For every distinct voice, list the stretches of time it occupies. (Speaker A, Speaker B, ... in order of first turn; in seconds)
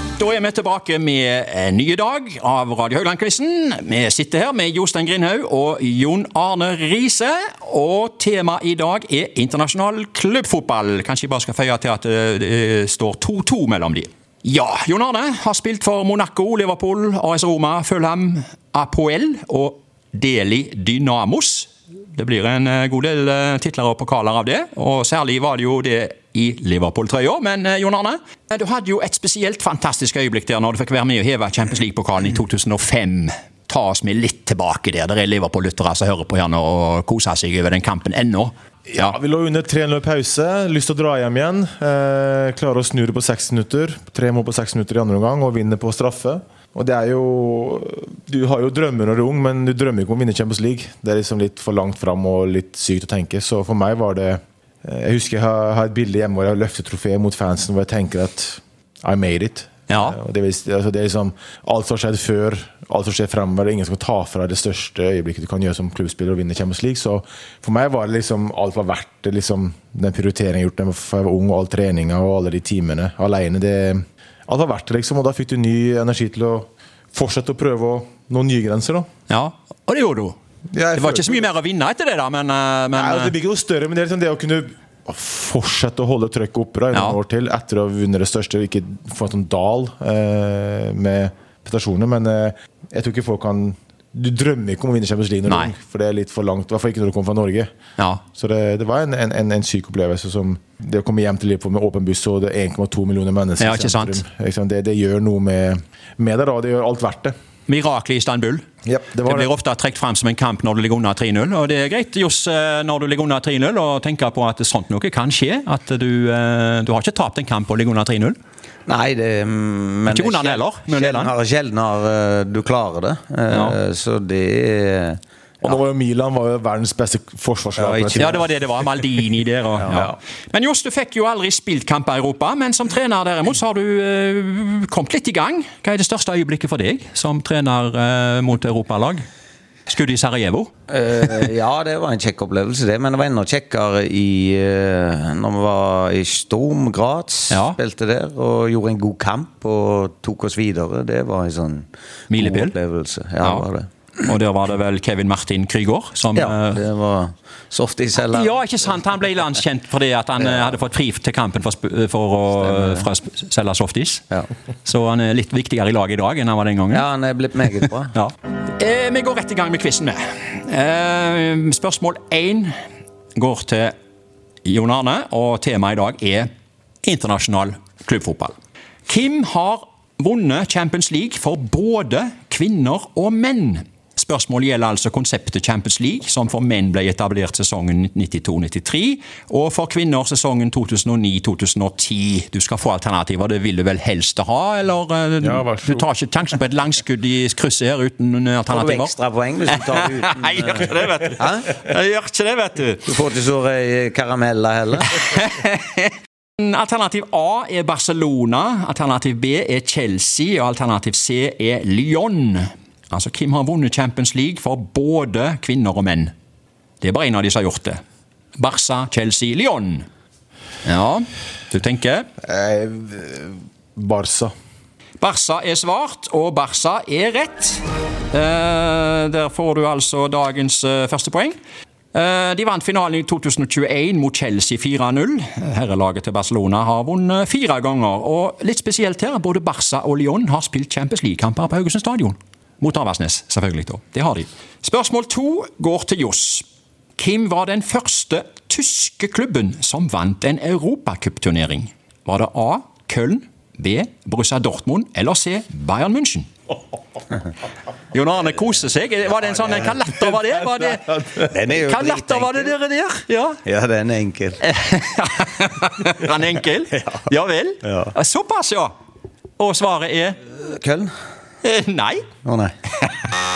Speaker A: 0.2-39.2, 59.9-60.2, 79.3-80.4, 80.9-83.3, 86.9-87.2, 95.5-95.7, 98.0-98.2, 103.6-104.2, 107.7-108.6, 109.2-118.4, 120.1-121.3, 123.5-123.8, 128.2-139.2, 139.9-140.7, 147.5-147.8, 152.3-152.8, 153.4-153.7, 154.2-156.8, 158.2-164.3, 164.8-167.1, 168.1-172.7, 173.4-173.9, 174.7-176.5, 177.0-178.5, 179.1-199.1, 199.7-203.1, 205.2-216.3, 217.0-218.0, 218.6-220.1, 220.8-222.3, 225.2-231.6, 232.1-246.7, 247.2-256.5, 258.1-263.6, 264.6-268.9, 269.6-270.4, 271.6-272.4, 273.0-273.2
Speaker B: 38.9-79.1, 80.7-81.5, 82.9-97.7, 98.4-107.3, 108.9-109.5, 125.6-128.4, 195.4-196.1, 222.4-224.5, 260.9-261.3
Speaker C: 118.9-125.7, 127.8-128.5, 129.8-130.2, 140.9-153.9, 156.3-158.7, 160.4-160.8, 162.5-163.1, 166.9-168.1, 198.7-201.8, 203.1-205.2, 261.4-262.7, 263.7-264.6, 267.8-268.1, 270.5-271.1, 272.4-272.7